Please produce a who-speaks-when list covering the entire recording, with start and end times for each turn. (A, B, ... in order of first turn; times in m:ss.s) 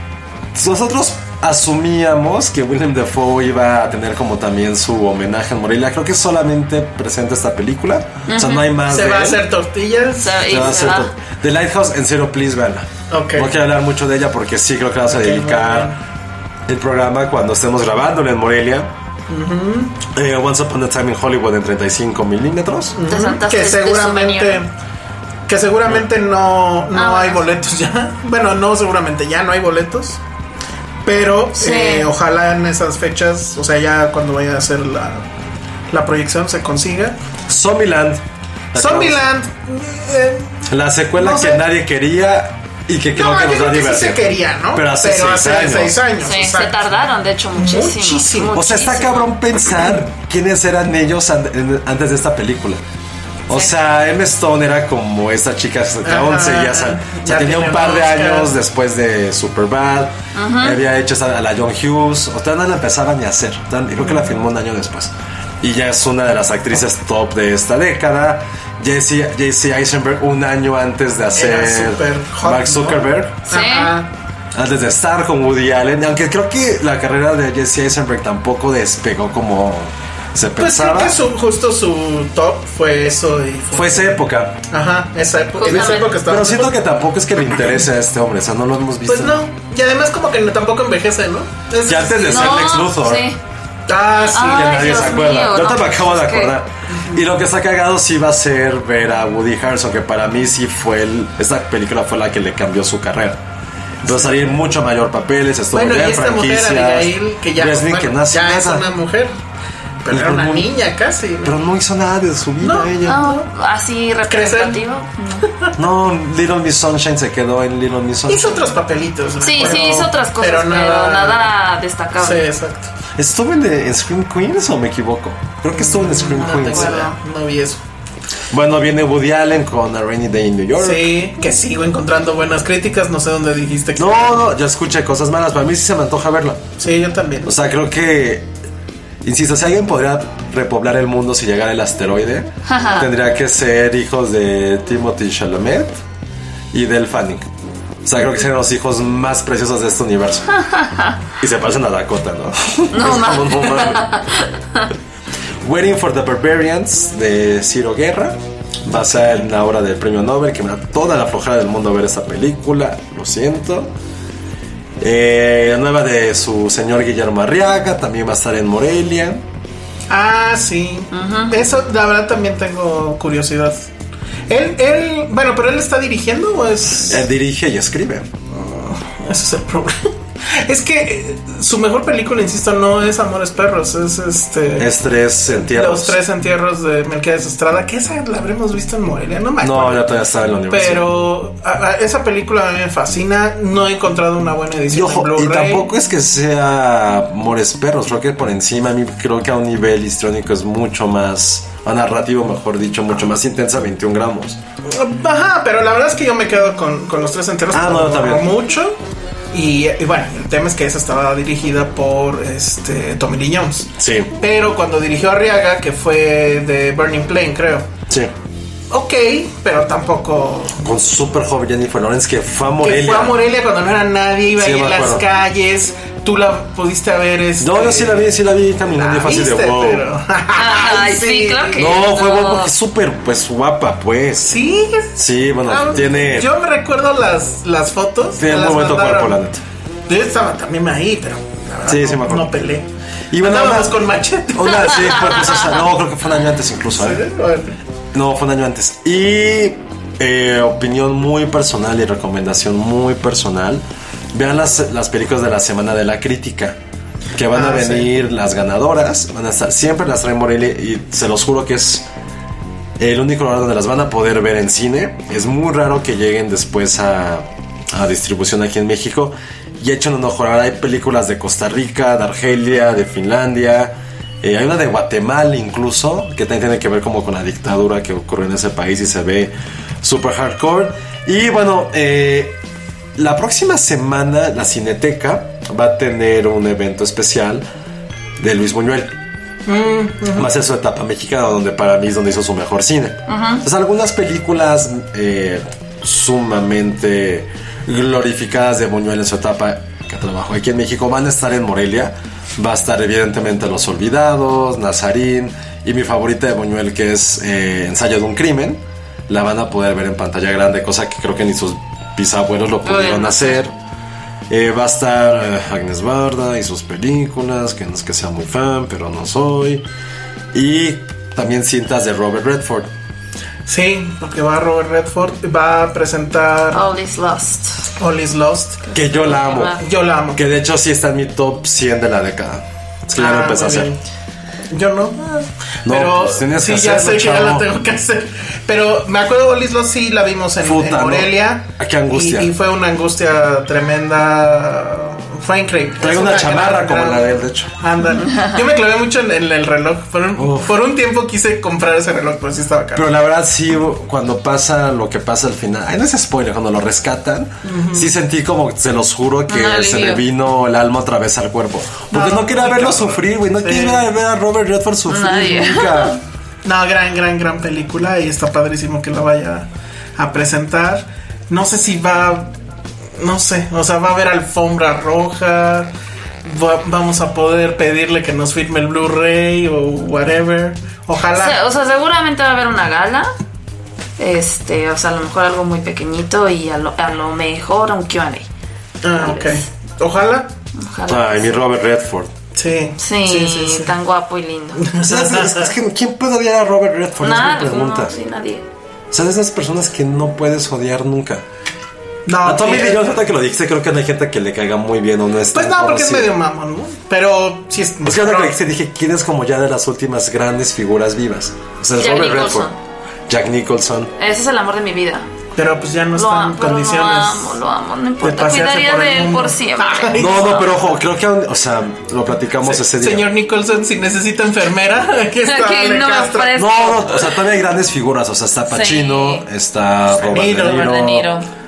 0:00.5-0:09.4 A
0:08.3-0:08.7 B
0:08.9-0:10.6 C
0:10.2-0:11.1 B
0:10.5-0:15.9 A
0:13.1-0:13.5 C
0:15.0-0:16.0 C
0:16.7-0:18.9 A
0:19.3-0:20.0 C
0:20.1-0:23.0 A
0:22.9-0:24.7 C
0:23.0-0:24.6 B
0:25.5-0:30.2 C
0:26.9-0:27.4 B
0:31.0-0:35.2 C
0:31.6-0:32.1 B
0:35.9-0:37.2 C
0:37.5-0:39.2 A
0:38.7-0:41.6 C
0:40.7-0:46.0 A
0:43.1-0:48.6 C
0:46.2-0:49.3 B
0:48.5-0:52.8 A
0:53.5-1:13.4 A
0:56.0-0:58.5 C
1:00.4-1:00.8 B
1:04.0-1:04.4 C
1:11.4-1:14.1 C
1:13.5-1:13.9 B
1:14.5-1:21.2 A
1:20.6-1:24.2 C
1:23.7-1:24.6 A
1:24.7-1:26.7 C
1:25.6-1:26.2 B
1:25.6-1:29.4 A
1:29.0-1:32.8 C
1:31.8-1:33.3 A
1:32.3-1:33.4 B
1:33.9-1:35.2 C
1:34.3-1:36.5 B
1:34.4-1:43.4 A
1:36.9-1:37.2 C
1:44.0-1:48.9 A
1:44.0-1:44.5 C
1:45.7-1:49.3 C
1:50.0-1:51.6 C
1:50.1-1:50.7 A
1:51.4-1:53.2 A
1:52.6-1:53.5 C
1:53.0-1:55.5 B
1:54.3-1:54.8 C
1:55.8-1:58.7 A
1:58.3-2:01.5 C
1:59.4-2:02.4 B
1:59.6-1:59.9 A
2:02.2-2:02.9 C
2:03.2-2:07.1 A
2:05.7-2:07.8 C
2:06.3-2:07.1 B
2:08.5-2:11.1 A
2:10.8-2:14.5 C
2:14.0-2:16.6 A
2:16.8-2:17.5 C
2:17.4-2:18.5 A
2:19.2-2:26.0 A
2:22.7-2:23.1 B
2:26.7-2:27.5 A
2:28.0-2:30.6 A
2:30.7-2:31.2 B
2:31.4-2:34.1 A
2:32.9-2:34.9 B
2:35.6-2:43.9 A
2:45.0-2:49.4 A
2:50.1-2:53.9 C
2:51.1-2:51.6 B
2:54.5-2:57.2 C
2:57.0-2:58.3 A
2:58.5-3:04.9 C
3:04.8-3:06.2 A
3:05.5-3:10.1 C
3:09.6-3:11.1 A
3:10.7-3:15.8 C
3:14.9-3:24.6 A
3:24.9-3:29.0 C
3:27.7-3:28.5 A
3:29.5-3:37.9 C
3:34.0-3:34.3 A
3:38.9-3:40.8 C
3:40.8-3:43.4 A
3:42.8-3:48.3 C
3:44.6-3:45.2 A
3:47.6-3:50.0 A
3:48.9-3:51.9 C
3:50.5-3:52.7 B
3:51.8-3:54.6 A
3:54.4-3:59.4 C
3:55.2-3:56.5 A
3:58.4-3:59.6 A
4:00.1-4:02.9 C
4:01.8-4:02.5 A
4:03.3-4:04.0 A
4:03.4-4:05.6 C
4:04.5-4:07.2 A
4:06.9-4:07.8 C
4:08.1-4:16.8 A
4:17.4-4:22.1 A
4:17.5-4:18.1 C
4:23.0-4:42.6 A
4:43.2-4:47.7 A
4:48.4-4:49.1 A
4:49.6-4:50.5 C
4:50.3-5:13.7 A
4:53.3-4:53.6 B
5:12.8-5:13.6 B
5:14.5-5:19.8 A
5:20.5-5:22.9 A
5:23.6-5:26.8 C
5:26.7-5:27.9 B
5:28.0-5:28.8 C
5:28.8-5:29.8 B
5:28.9-5:29.8 A
5:29.8-5:30.4 C
5:30.3-5:33.9 A
5:33.1-5:34.0 C
5:34.7-5:53.1 C
5:35.8-5:37.7 A
5:40.6-5:42.5 A
5:46.0-5:47.7 A
5:50.4-5:50.8 A
5:52.9-6:06.2 A
5:57.6-5:58.1 C
5:59.5-6:00.2 B
6:02.1-6:04.0 C
6:05.1-6:06.2 B
6:06.6-6:12.5 C
6:13.2-6:21.6 C
6:21.3-6:23.3 B
6:24.2-6:28.5 B
6:29.0-6:30.5 C
6:29.1-6:29.6 B
6:30.8-6:31.5 B
6:31.1-6:32.3 A
6:32.6-6:33.9 C
6:33.0-6:34.9 B
6:34.8-6:35.7 C
6:35.0-6:38.1 A
6:37.2-6:38.6 B
6:39.1-6:41.4 A
6:42.3-6:43.2 C
6:42.4-6:46.3 A
6:45.5-6:48.6 C
6:48.0-6:52.7 A
6:52.0-6:52.8 B
6:53.3-6:54.1 A
6:54.2-6:55.3 B
6:55.6-6:57.6 C
6:56.1-7:00.7 B
6:58.2-7:00.7 C
7:00.2-7:03.3 A
7:02.6-7:06.6 C
7:05.4-7:07.3 B
7:06.5-7:11.3 A
7:08.7-7:09.4 B
7:10.2-7:10.9 C
7:10.4-7:11.5 B